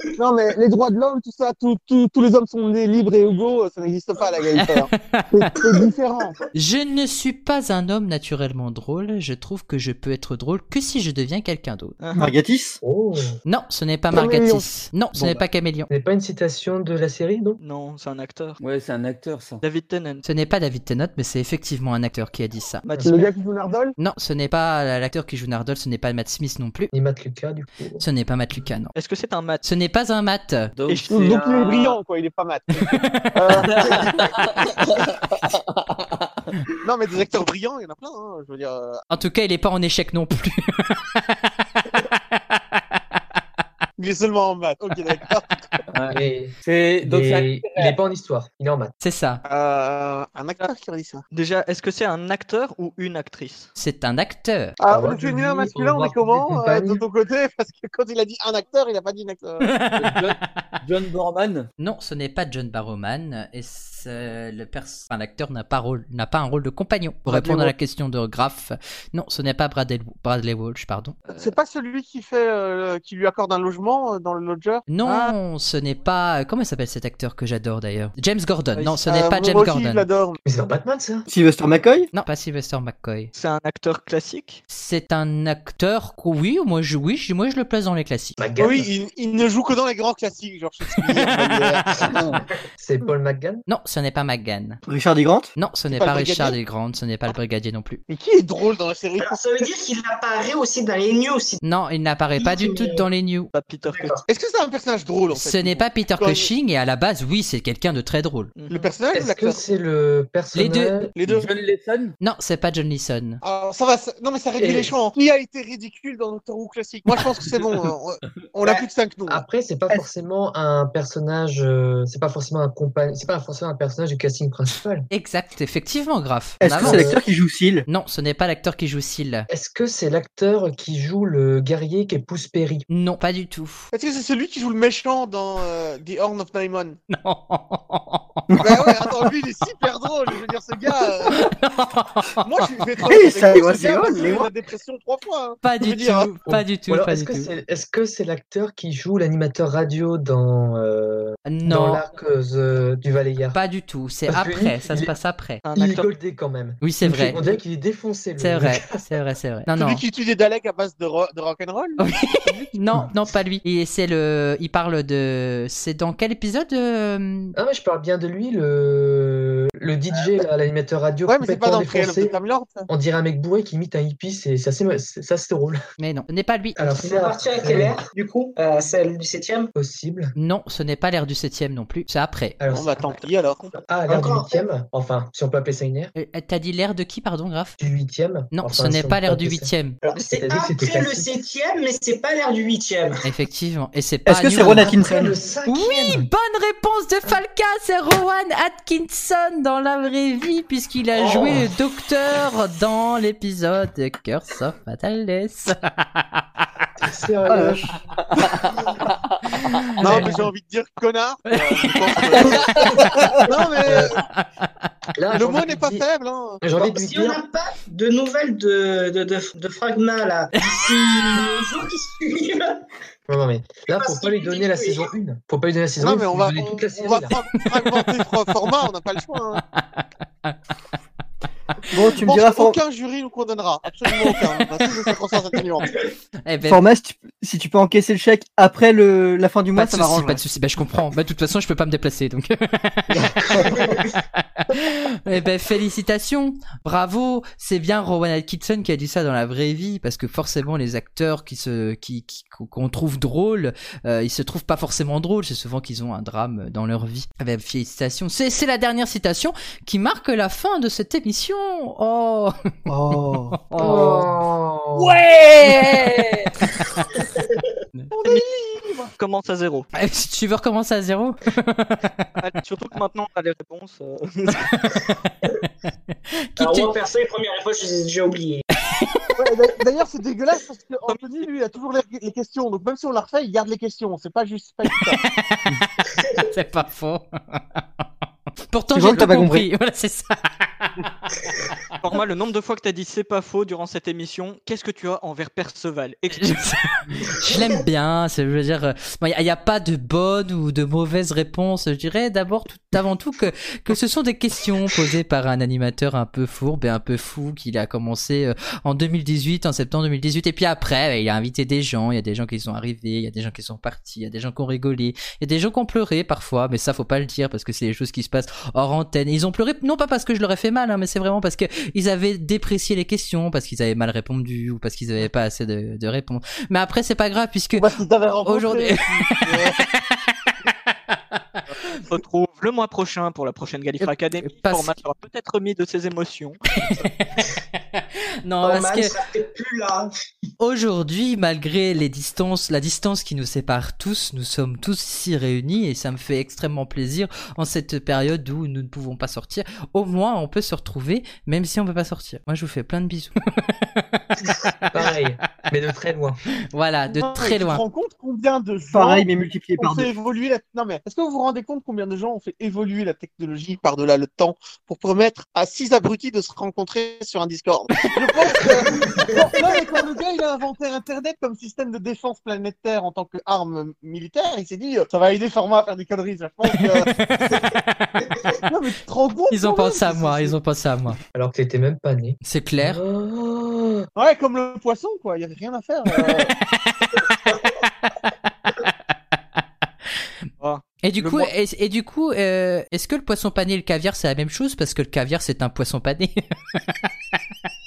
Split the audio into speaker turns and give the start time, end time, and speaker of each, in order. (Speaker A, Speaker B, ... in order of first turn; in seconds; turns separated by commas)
Speaker A: 0.2-6.3, Speaker B: 4.6-5.5, Speaker B: 6.5-11.9, Speaker C: 12.0-12.3, Speaker D: 12.1-12.8, Speaker E: 12.8-13.4, Speaker B: 13.4-15.9, Speaker A: 14.1-14.7, Speaker E: 15.9-17.6, Speaker C: 17.6-18.6, Speaker F: 18.6-19.6, Speaker C: 19.6-20.2, Speaker B: 20.2-23.0, Speaker C: 22.8-23.3, Speaker E: 22.9-23.2, Speaker A: 23.0-23.9, Speaker B: 24.0-26.9, Speaker E: 26.9-28.0, Speaker B: 28.0-28.9, Speaker C: 28.9-29.6, Speaker B: 29.6-30.7, Speaker F: 30.7-31.9, Speaker C: 30.9-32.0, Speaker A: 31.1-32.8, Speaker B: 32.9-33.3, Speaker A: 33.3-34.3, Speaker F: 33.7-35.6, Speaker A: 36.8-39.0, Speaker B: 39.1-41.2, Speaker A: 44.0-45.6, Speaker F: 45.9-48.0, Speaker E: 46.1-48.9, Speaker B: 49.0-49.4, Speaker A: 49.5-51.2, Speaker C: 51.3-53.7, Speaker B: 53.8-54.7, Speaker A: 54.8-59.8, Speaker E: 54.9-57.0, Speaker B: 59.6-60.3, Speaker F: 59.9-61.7, Speaker B: 61.8-71.2, Speaker F: 67.3-67.7, Speaker A: 71.3-74.8, Speaker B: 74.9-80.0, Speaker C: 75.0-75.3, Speaker A: 78.8-80.4, Speaker E: 80.4-81.2, Speaker D: 81.3-82.1, Speaker B: 82.1-83.3, Speaker C: 83.3-84.6, Speaker B: 84.7-88.4, Speaker E: 88.4-88.9, Speaker A: 88.6-92.3, Speaker E: 92.8-93.6, Speaker B: 93.7-94.8, Speaker D: 94.8-95.5, Speaker B: 95.5-98.0, Speaker A: 95.9-96.6, Speaker A: 98.1-99.4, Speaker G: 99.2-101.6, Speaker B: 101.6-103.5, Speaker G: 102.4-103.1, Speaker C: 103.5-104.2, Speaker G: 103.8-104.2, Speaker A: 104.3-106.5, Speaker B: 105.3-108.5, Speaker C: 108.6-108.9, Speaker A: 108.7-109.6, Speaker E: 109.1-111.3, Speaker B: 110.5-111.0, Speaker A: 111.2-111.5, Speaker F: 111.3-112.2, Speaker B: 112.2-113.4, Speaker A: 113.4-119.4, Speaker E: 114.6-114.9, Speaker E: 119.3-125.1, Speaker B: 125.1-127.1, Speaker D: 126.6-127.8, Speaker E: 126.8-127.2, Speaker B: 127.9-129.5, Speaker E: 129.5-132.8, Speaker B: 132.9-133.9, Speaker A: 133.9-137.0, Speaker B: 137.1-138.4, Speaker D: 138.5-138.8, Speaker A: 138.6-141.5, Speaker B: 141.3-142.7, Speaker A: 142.4-146.3, Speaker D: 143.0-144.5, Speaker B: 145.6-147.5, Speaker E: 146.4-153.6, Speaker B: 151.4-152.0, Speaker B: 153.5-155.6, Speaker E: 154.3-155.1, Speaker C: 155.6-156.1, Speaker E: 155.7-159.1, Speaker B: 156.8-157.4, Speaker B: 158.4-160.0, Speaker A: 159.7-162.0, Speaker B: 162.0-167.5, Speaker E: 167.6-172.4, Speaker A: 171.3-172.9, Speaker E: 172.9-175.8, Speaker B: 176.0-176.8, Speaker E: 176.8-178.0, Speaker G: 176.8-179.7, Speaker E: 179.7-180.3, Speaker B: 180.3-182.6, Speaker E: 182.6-183.1, Speaker A: 182.7-183.8, Speaker E: 183.9-186.1, Speaker G: 184.0-184.7, Speaker B: 186.1-187.8, Speaker E: 187.8-191.3, Speaker B: 188.5-190.0, Speaker G: 190.0-193.2, Speaker B: 193.2-194.9, Speaker D: 194.2-195.4, Speaker E: 194.6-196.3, Speaker B: 195.7-206.4, Speaker G: 201.1-201.6, Speaker E: 207.0-207.9, Speaker D: 207.5-207.8, Speaker F: 208.4-208.7, Speaker B: 209.6-210.4, Speaker A: 210.0-214.2, Speaker B: 211.5-212.6, Speaker B: 213.8-214.8, Speaker E: 215.2-216.1, Speaker A: 215.3-216.6, Speaker E: 216.6-217.4, Speaker G: 216.7-222.8, Speaker E: 223.3-227.3, Speaker G: 223.8-225.1, Speaker A: 226.0-229.6, Speaker B: 229.7-230.6, Speaker D: 231.9-232.8, Speaker A: 232.2-235.9, Speaker B: 236.4-236.8, Speaker D: 236.6-240.4, Speaker B: 239.7-243.4, Speaker G: 243.6-244.1, Speaker B: 244.6-262.5, Speaker D: 262.9-263.6, Speaker B: 263.5-264.2, Speaker E: 263.8-265.2, Speaker F: 265.0-266.5, Speaker B: 265.6-266.1, Speaker G: 267.2-267.5, Speaker A: 268.1-269.1, Speaker C: 269.1-269.9, Speaker B: 269.9-272.2, Speaker C: 272.4-274.6, Speaker B: 274.7-275.0, Speaker B: 276.5-276.9, Speaker G: 276.6-278.6, Speaker A: 279.4-285.2, Speaker C: 281.1-281.5, Speaker B: 285.2-285.7, Speaker G: 286.2-286.4, Speaker B: 286.5-287.8, Speaker B: 288.7-291.1, Speaker D: 288.9-289.7, Speaker C: 292.0-296.6, Speaker B: 296.4-330.3, Speaker G: 297.5-297.7, Speaker A: 327.7-329.8, Speaker C: 331.9-336.6, Speaker B: 334.0-334.9, Speaker B: 337.9-339.1, Speaker G: 338.6-340.1, Speaker B: 340.6-353.3, Speaker B: 353.9-354.4, Speaker E: 354.9-356.4, Speaker B: 356.7-357.8, Speaker A: 357.1-377.1, Speaker D: 358.9-360.1, Speaker G: 368.6-370.1, Speaker B: 376.8-378.3, Speaker A: 378.7-380.6, Speaker B: 379.5-381.2, Speaker E: 381.3-384.1, Speaker B: 382.4-383.0, Speaker A: 384.1-386.5, Speaker C: 390.6-391.5, Speaker B: 391.0-397.1